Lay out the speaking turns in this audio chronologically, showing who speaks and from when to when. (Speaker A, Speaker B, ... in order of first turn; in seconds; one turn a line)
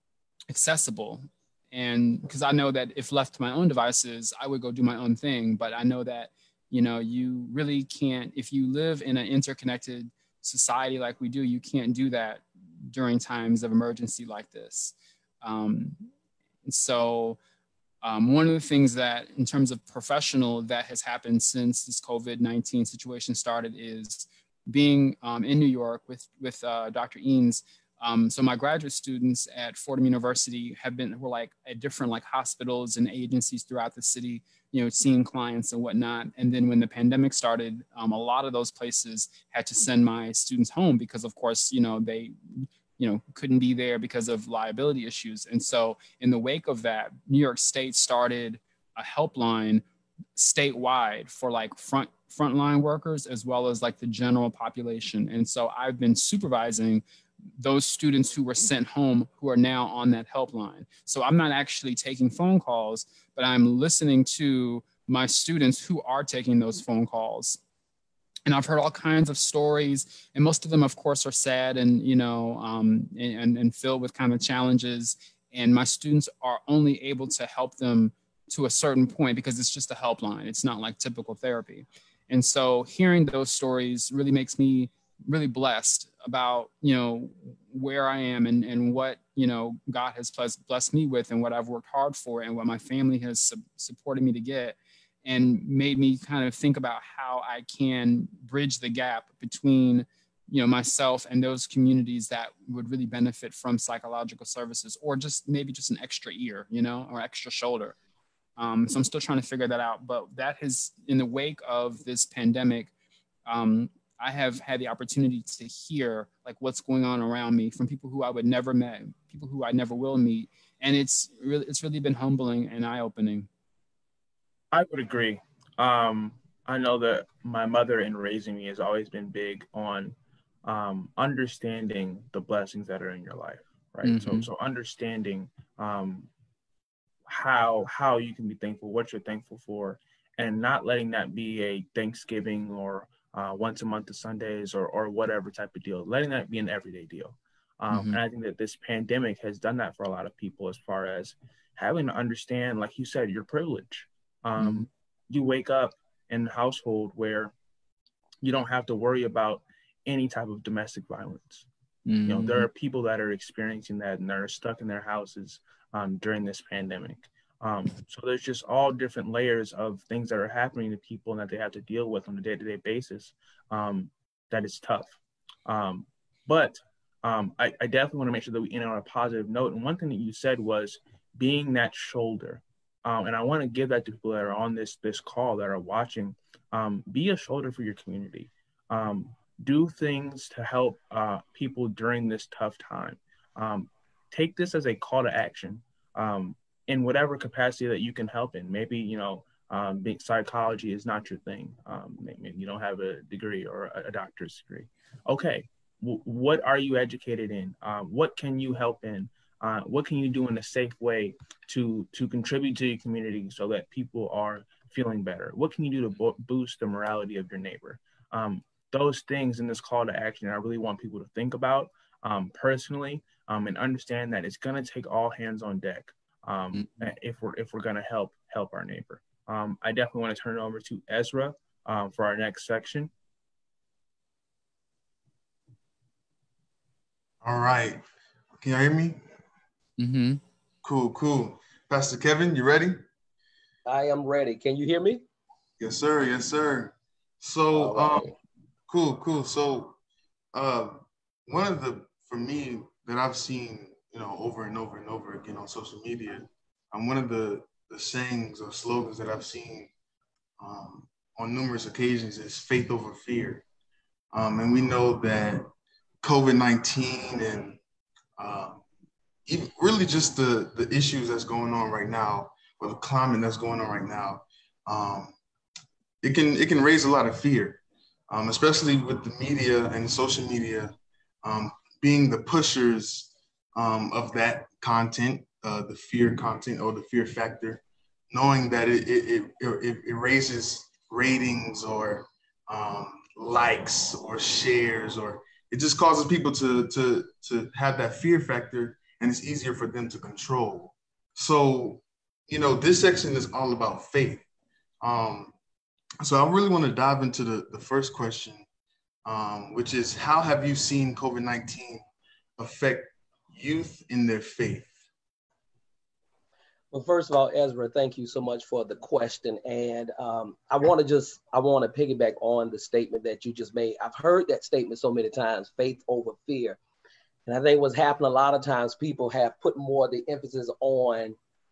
Speaker A: 0.5-16.1
Speaker A: 16.6-17.4
Speaker A: 18.0-49.8
Speaker A: 50.4-57.0
Speaker A: 57.6-67.6
Speaker A: 68.5-108.0
Speaker A: 108.6-112.9
Speaker A: 113.5-123.5
Speaker B: 124.7-136.3
Speaker A: 134.0-134.5
Speaker B: 137.3-157.5
Speaker A: 147.9-148.2
Speaker A: 154.6-154.9
Speaker B: 158.4-161.7
Speaker A: 162.1-162.7
Speaker B: 162.2-233.1
Speaker C: 237.4-238.0
Speaker C: 238.6-239.2
Speaker A: 240.0-240.4
Speaker C: 240.8-243.0
Speaker D: 243.9-245.2
Speaker C: 245.8-248.3
Speaker D: 247.7-248.3
Speaker C: 248.9-250.0
Speaker C: 250.5-259.9
Speaker C: 260.6-263.6
Speaker C: 264.3-265.7
Speaker C: 266.2-267.8
Speaker C: 268.4-268.8
Speaker C: 269.5-275.4
Speaker C: 276.2-304.4
Speaker C: 305.0-305.5
Speaker C: 306.2-308.6
Speaker C: 309.2-312.0
Speaker C: 312.6-314.9
Speaker D: 316.9-326.8
Speaker D: 327.5-331.4